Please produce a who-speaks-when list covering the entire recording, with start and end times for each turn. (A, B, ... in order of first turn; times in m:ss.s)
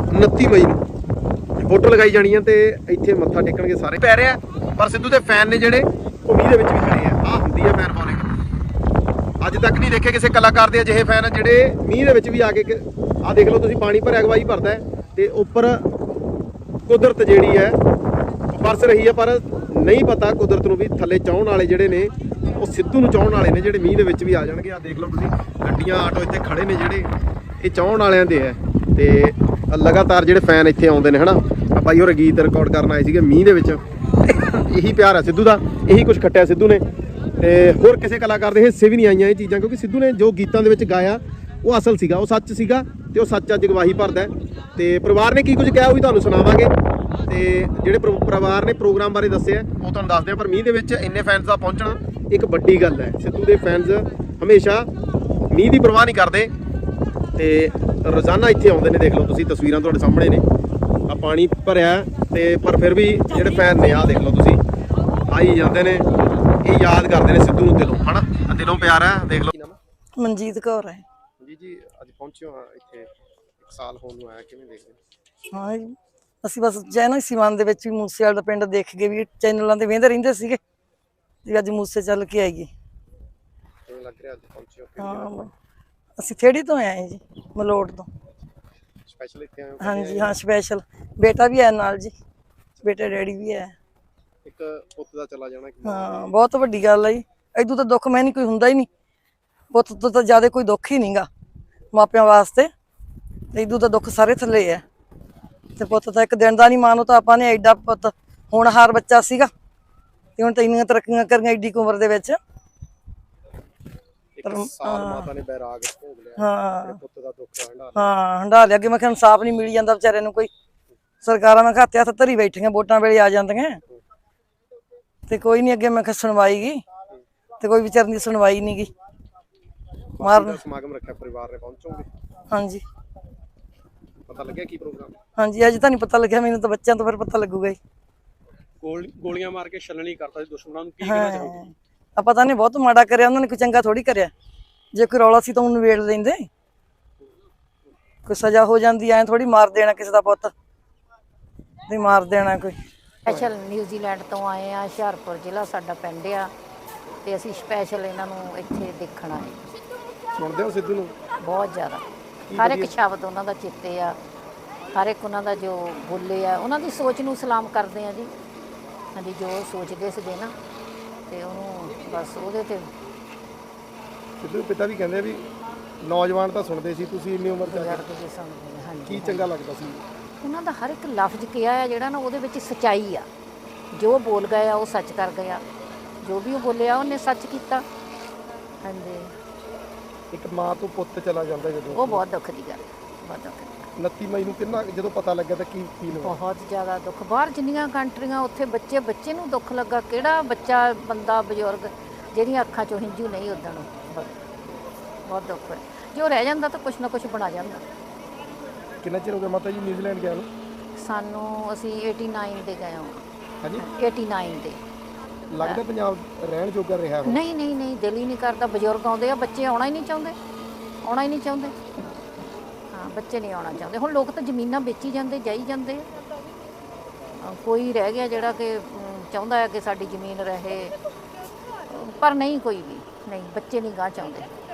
0:00.1-0:00.8 A
0:01.6-0:08.3 A
0:09.4-0:15.8 A
0:16.8-0:17.8 A
0:18.5-0:27.1 A
0:27.6-0:36.8 A
0:37.4-0:46.7 A
0:47.3-0:54.9 A
0:55.5-0:56.5 A
0:57.4-1:00.4 A
1:01.1-1:04.6 A
1:05.3-1:06.0 A
1:06.6-1:09.8 A
1:10.2-1:11.0 B
1:11.4-1:13.1 A
1:13.6-1:15.0 A
1:15.5-1:20.6 B
1:21.4-1:22.7 B
1:23.9-1:25.3 A
1:25.0-1:25.5 B
1:26.2-1:28.1 B
1:29.1-1:30.3 A
1:29.8-1:32.1 B
1:32.8-1:33.7 B
1:34.4-1:36.3 A
1:35.8-1:38.9 B
1:39.7-1:41.3 B
1:41.9-1:42.7 B
1:43.5-1:44.8 B
1:45.8-1:49.5 B
1:50.4-1:52.4 B
1:54.4-1:58.1 A
1:54.4-1:55.3 B
1:56.4-1:57.0 B
1:58.0-2:00.5 B
2:01.2-2:03.8 B
2:05.3-2:06.8 B
2:07.6-2:08.9 B
2:10.2-2:12.1 A
2:10.2-2:10.6 B
2:12.5-2:12.8 B
2:14.3-2:15.2 A
2:15.4-2:17.8 B
2:18.8-2:21.6 C
2:21.0-2:24.3 B
2:24.9-2:26.4 B
2:28.2-2:30.5 B
2:31.9-2:32.7 B
2:33.2-2:36.5 D
2:37.2-2:39.6 D
2:40.3-2:41.1 A
2:41.4-2:42.0 D
2:42.5-2:42.9 A
2:42.6-2:44.2 D
2:44.9-2:48.3 D
2:49.1-2:50.6 D
2:51.3-2:52.9 D
2:54.4-2:55.4 A
2:56.0-2:58.0 A
2:57.7-2:59.5 D
2:59.0-3:00.0 A
3:00.4-3:03.3 D
3:03.9-3:05.6 D
3:06.2-3:07.8 D
3:08.8-3:09.3 D
3:10.3-3:12.2 A
3:11.9-3:13.8 D
3:14.0-3:16.4 A
3:16.2-3:24.3 D
3:25.2-3:27.8 D
3:29.0-3:30.5 A
3:30.9-3:33.2 D
3:33.6-3:33.9 A
3:33.8-3:34.8 D
3:35.5-3:37.4 A
3:37.2-3:40.4 D
3:41.0-3:41.8 D
3:42.9-3:46.1 D
3:47.3-3:51.0 D
3:51.8-3:54.5 D